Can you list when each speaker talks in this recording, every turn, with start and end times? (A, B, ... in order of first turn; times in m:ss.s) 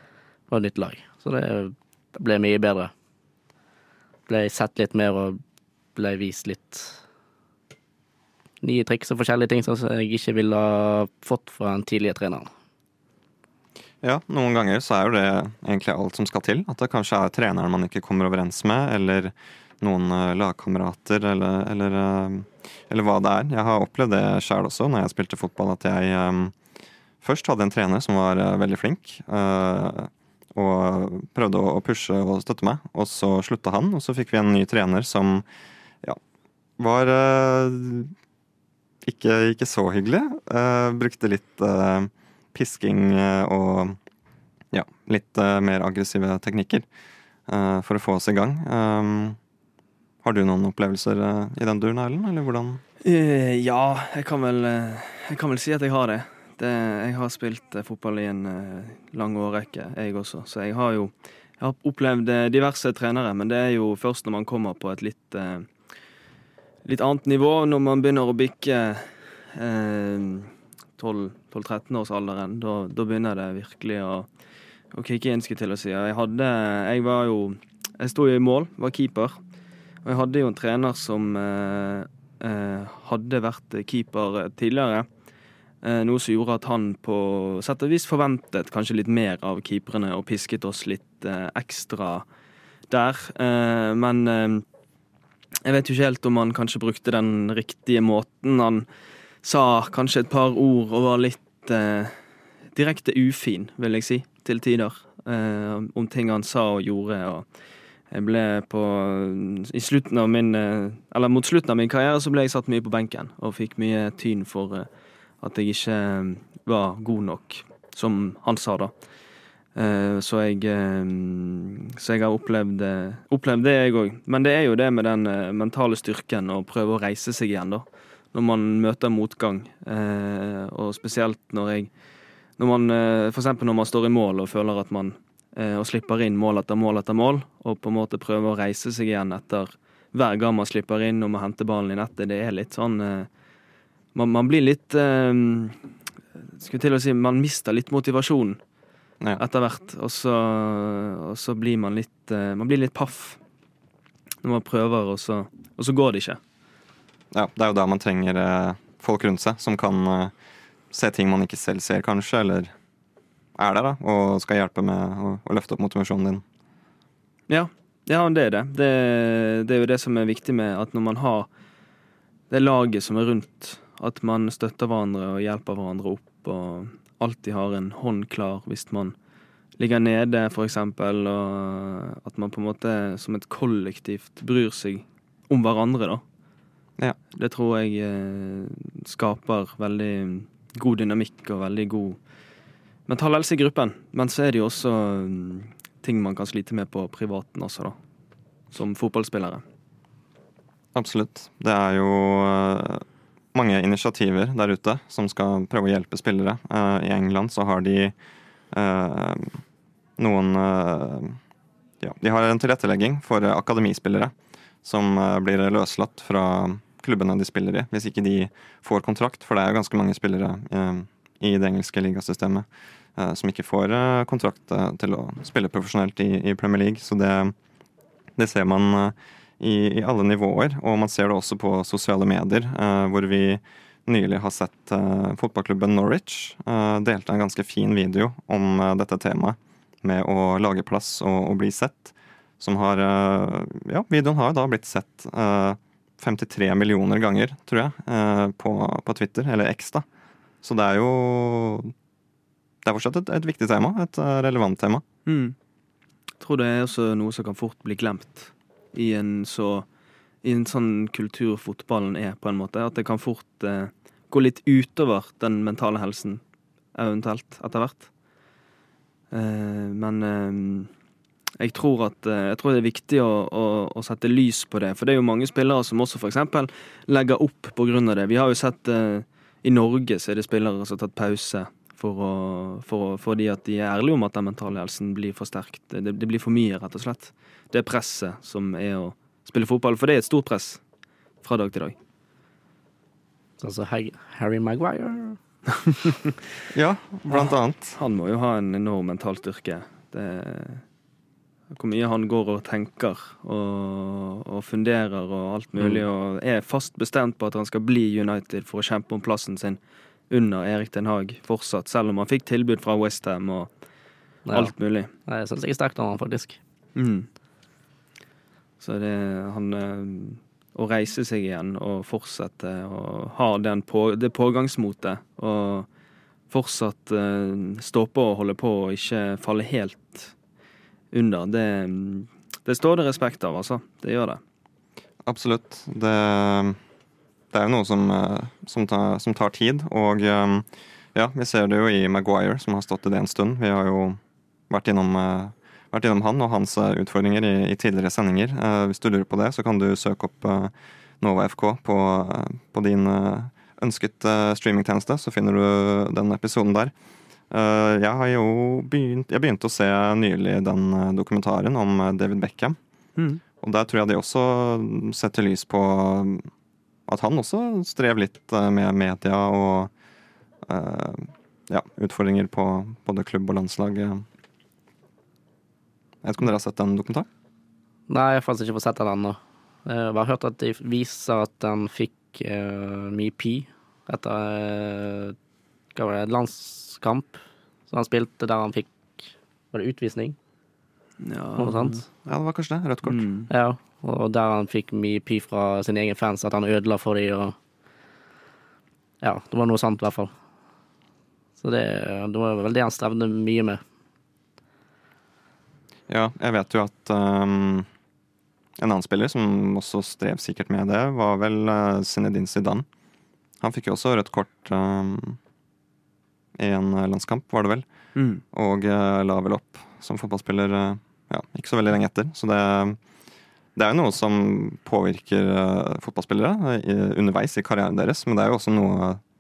0:00.5-0:02.9 A
0:04.3-0:05.4 A
0:05.9-0:07.0 A
0:08.6-0:12.5 A
0:14.0-0:26.5 B
0:27.2-0:35.4 B
0:36.8-0:38.1 B
0:39.0-0:44.0 B
0:44.7-0:46.8 B
0:47.5-0:49.4 B
0:50.2-0:52.8 B
0:53.0-1:05.7 C
1:06.8-1:14.3 C
1:14.9-1:19.4 C
1:20.0-1:25.0 C
1:25.8-1:32.2 C
1:32.9-1:34.6 C
1:35.6-1:38.8 C
1:39.4-1:42.2 C
1:42.7-1:47.4 C
1:48.1-1:54.9 C
1:55.4-1:58.9 C
1:59.8-2:11.9 C
2:12.6-2:23.3 C
2:24.1-2:25.8 C
2:26.4-2:28.6 C
2:29.4-2:33.4 C
2:34.4-2:36.4 C
2:37.3-2:40.3 B
2:40.9-2:42.7 B
2:43.6-2:46.4 B
2:47.5-2:51.5 C
2:52.5-2:59.1 C
2:59.8-3:06.2 C
3:07.3-3:12.2 C
3:13.1-3:18.0 C
3:18.7-3:19.6 C
3:20.9-3:28.1 B
3:28.7-3:29.6 B
3:30.2-3:31.4 B
3:32.0-3:34.3 B
3:34.8-3:47.5 B
3:48.4-4:10.0 B
4:10.6-4:11.9 B
4:12.8-4:15.0 B
4:15.2-4:15.5 C
4:16.4-4:19.8 C
4:20.4-4:26.4 C
4:26.9-4:28.1 C
4:29.3-4:30.9 C
4:31.6-4:50.8 C
4:51.4-4:52.0 C
4:53.6-4:55.4 A
4:56.7-4:58.0 B
4:57.3-5:00.8 C
5:01.7-5:09.8 C
5:10.3-5:13.7 C
5:14.4-5:14.7 A
5:14.5-5:15.1 C
5:15.2-5:16.6 A
5:17.0-5:17.3 C
5:18.8-5:25.9 C
5:26.5-5:30.3 C
5:31.1-5:34.4 C
5:35.2-5:36.8 B
5:37.5-5:44.2 B
5:44.7-5:56.9 B
5:57.5-6:02.8 B
6:03.6-6:06.5 B
6:07.1-6:09.9 B
6:10.6-6:14.2 B
6:16.2-6:17.3 B
6:18.1-6:25.3 A
6:25.9-6:30.4 A
6:31.2-6:32.0 C
6:31.6-6:32.0 A
6:32.2-6:33.2 B
6:33.1-6:33.5 C
6:33.5-6:37.5 A
6:39.2-6:40.3 A
6:41.6-6:43.8 A
6:46.1-6:47.9 B
6:48.8-6:52.8 B
6:53.6-6:55.4 B
6:56.6-6:57.8 B
6:58.2-6:58.4 C
6:58.5-7:03.0 B
7:03.8-7:09.2 B